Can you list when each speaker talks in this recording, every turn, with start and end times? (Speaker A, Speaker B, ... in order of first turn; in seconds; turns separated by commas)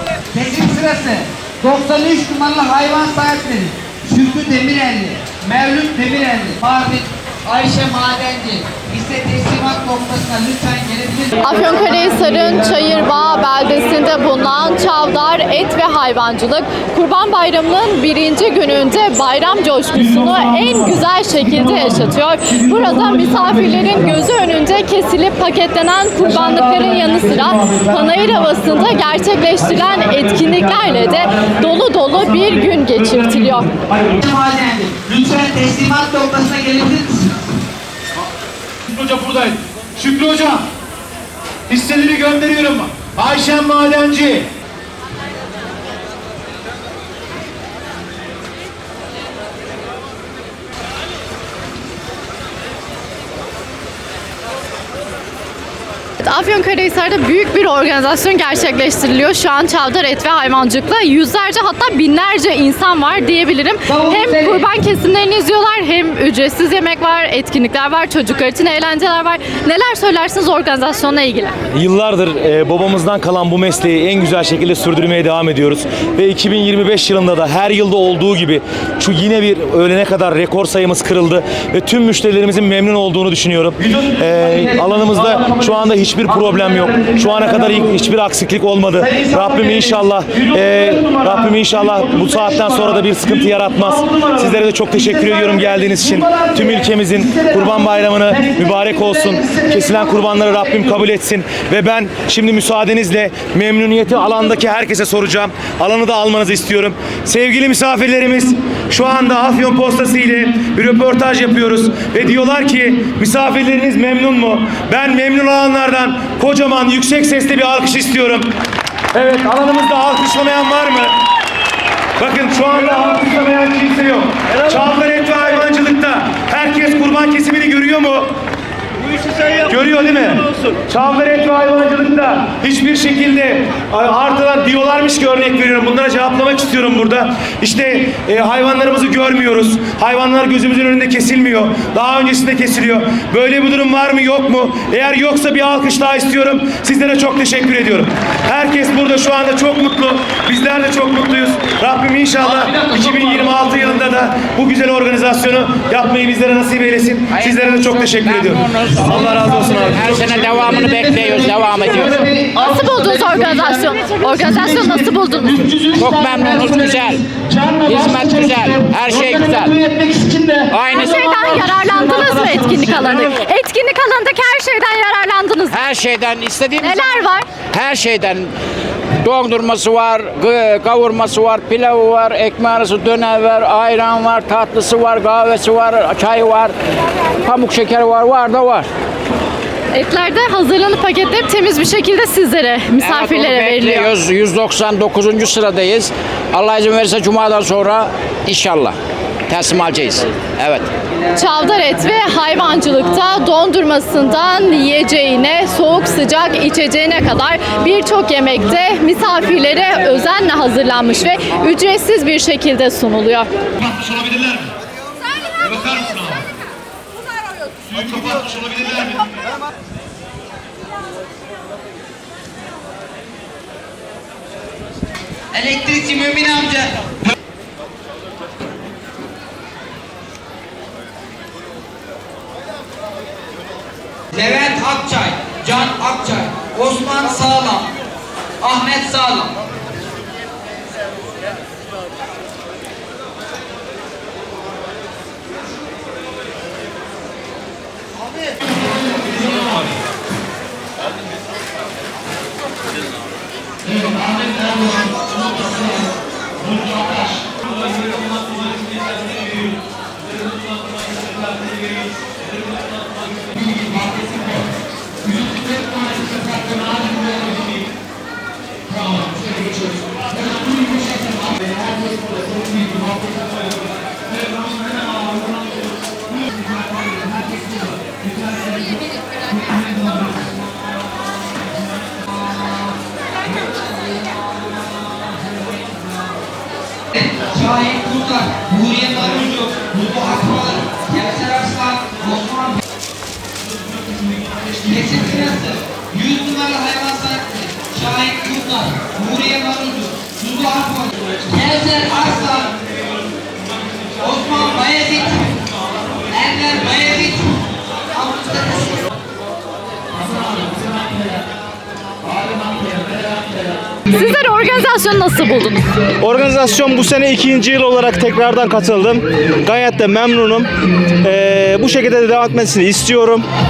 Speaker A: 0.3-11.3, Speaker B: 11.4-33.8, Speaker C: 23.0-24.0, Speaker C: 26.2-28.2, Speaker A: 34.2-37.4, Speaker C: 38.9-40.6, Speaker C: 41.7-44.4, Speaker B: 56.2-71.5, Speaker A: 63.9-64.6, Speaker D: 71.7-118.5, Speaker C: 84.3-87.8, Speaker C: 89.0-100.3, Speaker D: 119.1-121.2, Speaker D: 122.2-128.3, Speaker D: 129.7-160.4, Speaker C: 152.6-153.4, Speaker E: 157.3-162.3, Speaker C: 160.3-164.7, Speaker B: 162.6-165.7, Speaker C: 165.4-173.3, Speaker E: 165.9-167.2, Speaker E: 167.8-169.8, Speaker E: 170.7-171.7, Speaker B: 170.9-175.8, Speaker E: 175.7-178.5, Speaker B: 176.8-177.5, Speaker E: 179.2-186.7, Speaker E: 187.4-188.9, Speaker B: 189.9-194.1, Speaker E: 193.0-198.9, Speaker E: 199.5-200.9, Speaker B: 201.4-213.5, Speaker C: 218.2-218.9, Speaker A: 225.5-226.9, Speaker A: 234.3-237.9, Speaker A: 238.6-239.5, Speaker A: 287.2-292.8, Speaker A: 294.8-302.8, Speaker A: 304.2-305.6, Speaker A: 306.3-307.5, Speaker A: 308.1-309.1, Speaker B: 314.1-315.8, Speaker F: 316.2-320.7, Speaker F: 321.2-323.5